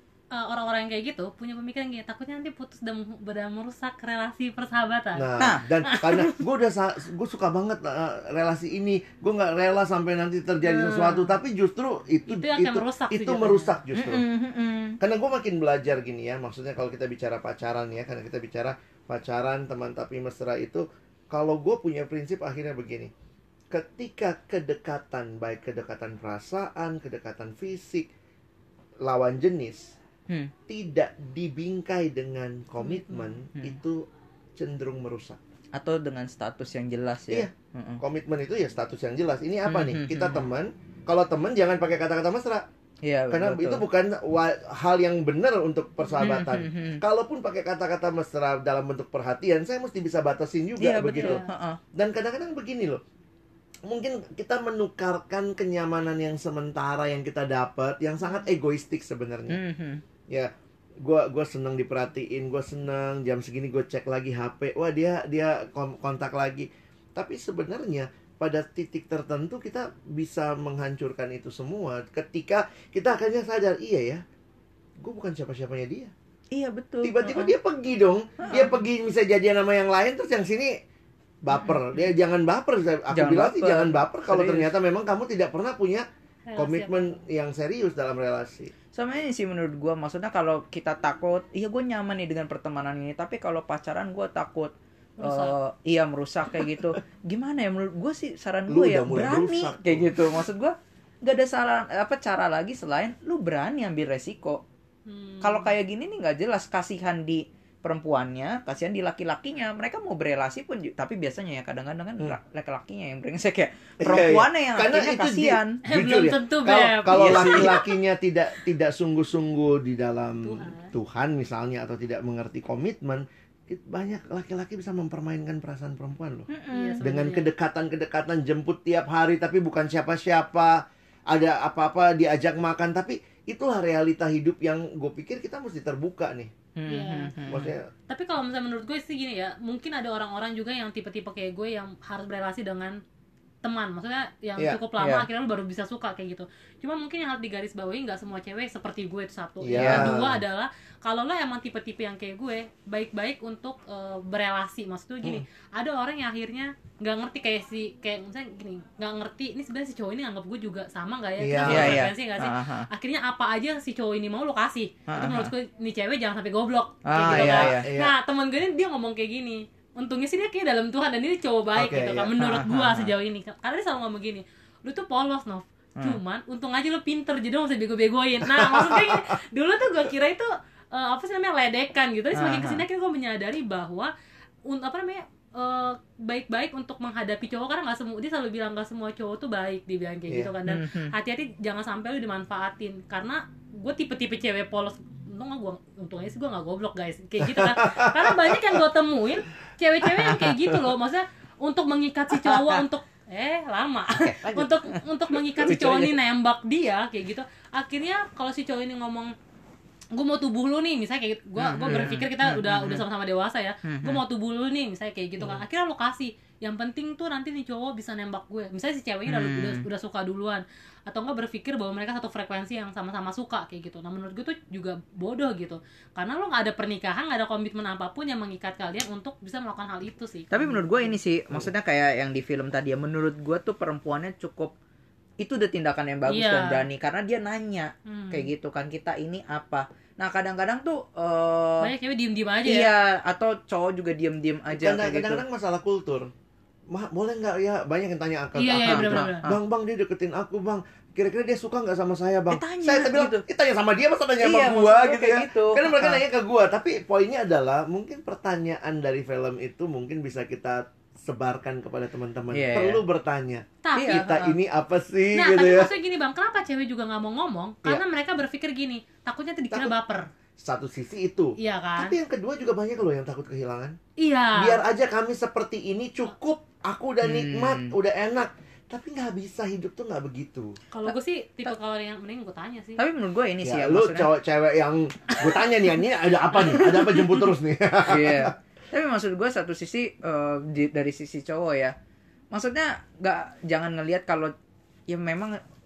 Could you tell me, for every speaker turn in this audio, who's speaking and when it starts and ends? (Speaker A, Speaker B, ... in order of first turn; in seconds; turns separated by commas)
Speaker A: 0.3-5.3, Speaker B: 5.1-14.2, Speaker C: 5.4-5.7, Speaker A: 5.8-6.3, Speaker A: 10.6-11.3, Speaker A: 12.3-13.7, Speaker C: 13.9-15.0, Speaker B: 15.0-23.1, Speaker B: 23.7-28.1, Speaker B: 29.0-29.9, Speaker B: 30.7-34.0, Speaker A: 32.8-33.2, Speaker B: 34.5-35.4, Speaker C: 35.7-38.0, Speaker B: 37.3-42.6, Speaker C: 39.7-40.4, Speaker C: 43.0-43.8, Speaker B: 43.3-51.4, Speaker C: 46.2-47.0, Speaker C: 50.8-51.8, Speaker A: 51.0-51.5, Speaker B: 51.9-53.0, Speaker B: 53.9-59.6, Speaker C: 59.5-60.0, Speaker B: 61.0-74.2, Speaker B: 75.0-76.1, Speaker C: 76.5-77.5, Speaker B: 77.0-80.8, Speaker C: 78.4-78.8, Speaker B: 81.4-86.0, Speaker C: 83.1-84.7, Speaker A: 86.5-87.1, Speaker B: 86.6-88.7, Speaker C: 88.9-104.6, Speaker A: 95.2-95.5, Speaker B: 98.7-100.2, Speaker A: 105.0-105.7, Speaker C: 105.4-115.8, Speaker B: 114.0-126.5, Speaker A: 115.8-117.8, Speaker C: 117.1-117.8, Speaker A: 120.4-120.9, Speaker C: 126.5-127.0, Speaker A: 126.7-127.5, Speaker B: 127.0-136.5, Speaker C: 136.8-137.7, Speaker A: 136.8-137.3, Speaker B: 137.5-137.9, Speaker A: 138.1-143.0, Speaker A: 143.6-184.1, Speaker C: 145.0-145.3, Speaker B: 149.6-150.4, Speaker C: 149.8-150.1, Speaker B: 161.4-162.0, Speaker C: 161.7-162.9, Speaker C: 165.1-165.5, Speaker C: 167.1-167.8, Speaker B: 167.2-168.1, Speaker B: 171.7-172.3, Speaker C: 172.4-173.1, Speaker B: 178.5-179.3, Speaker C: 182.3-182.8, Speaker A: 184.7-209.3, Speaker C: 190.7-191.1, Speaker B: 197.4-198.7, Speaker C: 202.3-202.8, Speaker C: 204.1-205.0, Speaker C: 205.6-206.2, Speaker A: 210.1-231.1, Speaker C: 211.6-213.0, Speaker C: 213.8-214.2, Speaker C: 219.2-219.8, Speaker C: 230.5-234.7, Speaker C: 235.4-241.9, Speaker A: 236.3-236.8, Speaker A: 238.1-238.5, Speaker A: 241.8-242.9, Speaker C: 242.6-245.4, Speaker B: 244.7-246.3, Speaker B: 246.9-265.9, Speaker A: 248.6-249.5, Speaker C: 248.8-249.6, Speaker C: 252.5-253.4, Speaker C: 254.4-256.2, Speaker C: 262.5-263.0, Speaker A: 263.8-264.4, Speaker C: 263.9-264.6, Speaker A: 265.3-270.3, Speaker B: 270.6-273.9, Speaker A: 271.6-272.1, Speaker A: 274.2-274.8, Speaker B: 274.6-280.8, Speaker C: 277.2-277.9, Speaker A: 280.9-283.0, Speaker C: 283.0-284.3, Speaker B: 283.6-288.5, Speaker A: 285.3-285.6, Speaker A: 286.5-287.4, Speaker C: 288.1-291.9, Speaker C: 292.5-294.5, Speaker C: 295.1-295.6